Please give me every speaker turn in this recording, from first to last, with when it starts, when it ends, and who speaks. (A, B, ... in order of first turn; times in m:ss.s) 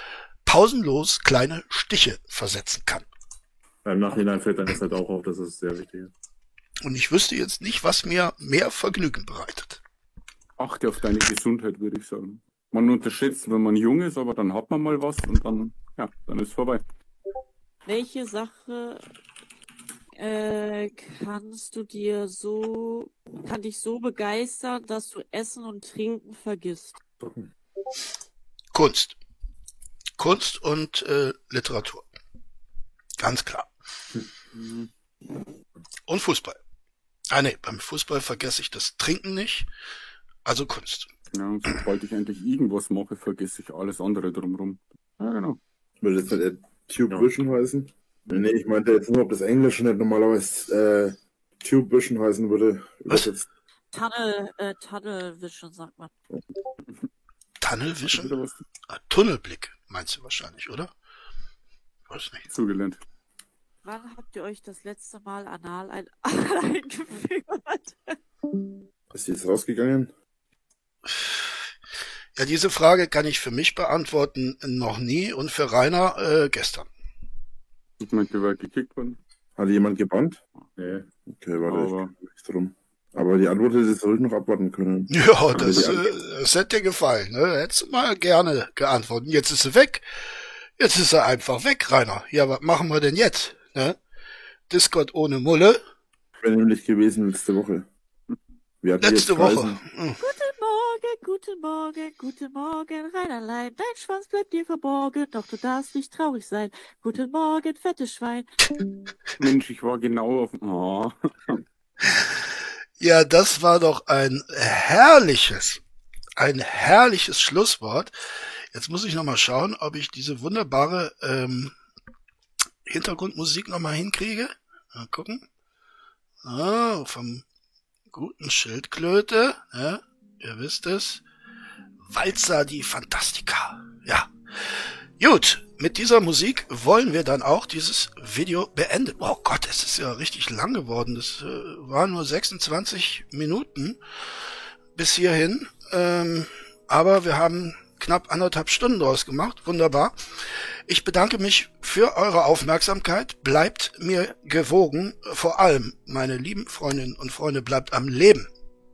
0:00.4-0:03.1 A
0:03.8-0:06.1 B
0:06.8-0:09.8 A
0:10.6-0:16.8 C
0:17.8-0:19.0 D
0:20.1-0:27.0 D
0:27.2-0:27.5 B
0:28.7-0:29.2 A
0:30.2-0:32.0 A
0:33.2-0:33.7 A
0:34.5-0:34.9 C
0:36.1-0:36.6 A
0:37.3-0:39.7 A
0:40.4-0:41.1 A
0:41.3-0:45.6 C
0:46.0-0:53.4 E
0:53.9-0:56.1 D
0:57.6-0:58.3 A
0:58.1-0:58.6 C
0:58.9-1:00.9 A
1:02.1-1:02.5 A
1:02.5-1:03.0 C
1:03.8-1:08.2 D
1:09.1-1:10.1 E
1:11.1-1:11.5 A
1:12.3-1:16.9 A
1:18.0-1:19.2 C
1:19.6-1:20.4 E
1:20.8-1:21.1 B
1:21.3-1:26.1 E
1:21.7-1:22.1 C
1:25.1-1:30.0 A
1:25.5-1:26.0 C
1:30.8-1:34.0 A
1:34.7-1:35.8 A
1:36.4-1:37.9 E
1:38.8-1:39.8 E
1:39.0-1:40.2 A
1:40.2-1:48.5 D
1:49.4-1:51.6 C
1:52.0-1:52.4 A
1:53.0-1:55.8 A
1:56.4-1:58.1 A
1:58.7-2:01.7 A
2:02.8-2:05.4 A
2:06.4-2:07.4 A
2:08.1-2:11.2 A
2:12.1-2:14.3 A
2:15.2-2:24.0 A
2:24.9-2:30.2 A
2:30.9-2:38.5 A